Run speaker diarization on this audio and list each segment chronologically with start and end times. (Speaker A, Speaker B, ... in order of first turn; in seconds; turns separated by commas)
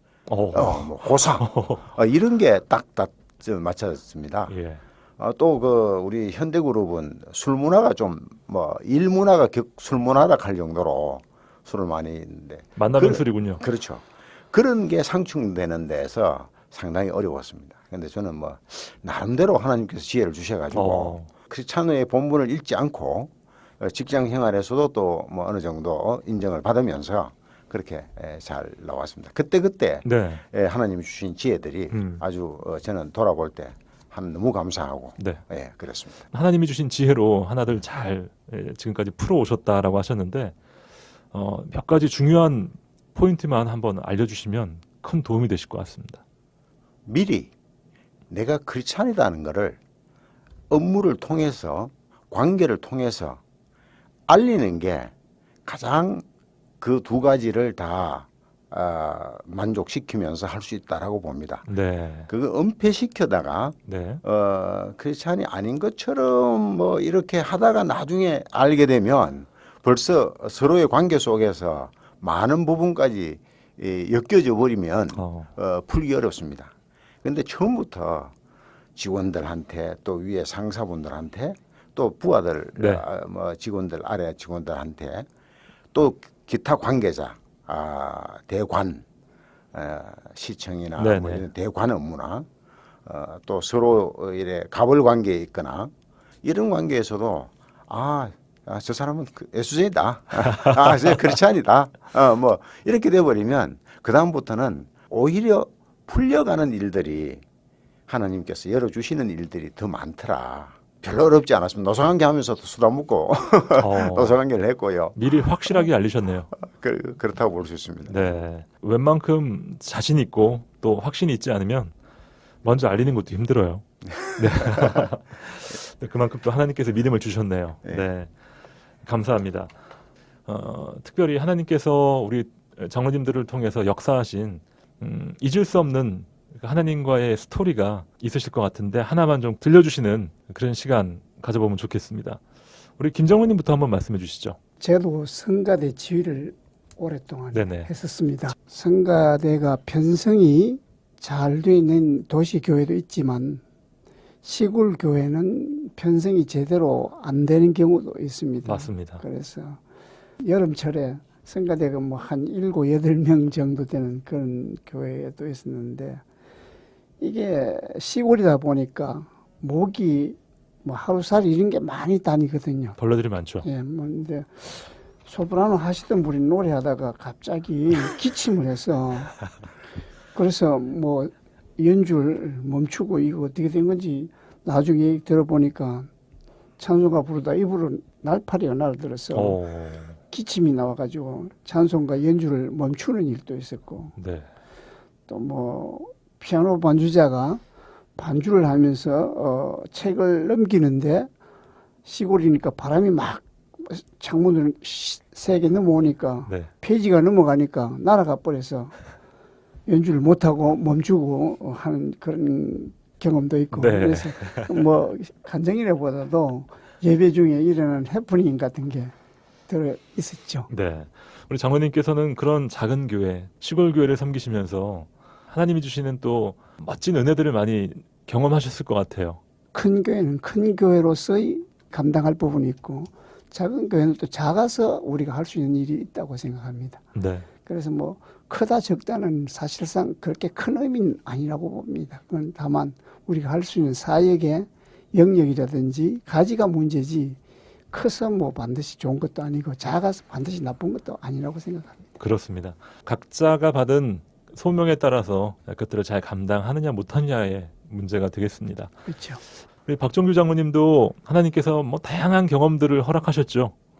Speaker A: 0.3-1.9, Speaker B: 0.5-4.5, Speaker A: 4.5-4.8, Speaker B: 5.2-36.3, Speaker A: 12.8-13.6, Speaker A: 20.7-21.3, Speaker A: 30.0-30.4, Speaker A: 31.9-32.2, Speaker A: 36.3-40.5, Speaker A: 41.3-46.2, Speaker B: 47.0-47.5, Speaker B: 48.3-49.8, Speaker B: 50.7-53.4, Speaker B: 54.3-55.1, Speaker B: 55.6-56.2, Speaker B: 56.8-61.7, Speaker A: 61.7-62.3, Speaker B: 62.3-78.3, Speaker A: 63.9-64.2, Speaker A: 75.1-75.5, Speaker B: 79.0-85.3, Speaker A: 82.8-83.0, Speaker B: 85.9-89.0, Speaker B: 89.7-92.5, Speaker A: 91.0-91.4, Speaker B: 93.0-107.4, Speaker B: 108.1-115.8, Speaker A: 113.8-114.3, Speaker A: 115.2-116.5, Speaker B: 116.6-118.3, Speaker A: 118.1-121.9, Speaker A: 122.6-128.3, Speaker B: 124.2-125.0, Speaker A: 129.0-129.7, Speaker A: 130.4-142.4, Speaker A: 143.0-144.6, Speaker C: 144.8-153.6, Speaker A: 147.5-147.9, Speaker C: 154.4-159.8, Speaker A: 158.6-159.2, Speaker C: 160.4-166.2, Speaker C: 167.2-173.0, Speaker A: 173.0-173.7, Speaker C: 173.6-179.4, Speaker C: 180.3-186.1, Speaker C: 186.8-189.6, Speaker A: 189.3-190.2, Speaker C: 190.3-194.1, Speaker A: 194.2-194.5, Speaker C: 195.3-197.6, Speaker C: 198.2-201.3, Speaker C: 202.0-208.9, Speaker C: 209.9-219.1, Speaker A: 213.7-214.8, Speaker C: 219.7-220.7, Speaker A: 220.7-229.4, Speaker C: 229.7-237.0, Speaker A: 237.1-237.5, Speaker C: 237.6-247.4, Speaker C: 247.9-252.0, Speaker A: 252.2-259.0, Speaker C: 259.1-259.4, Speaker A: 259.9-263.7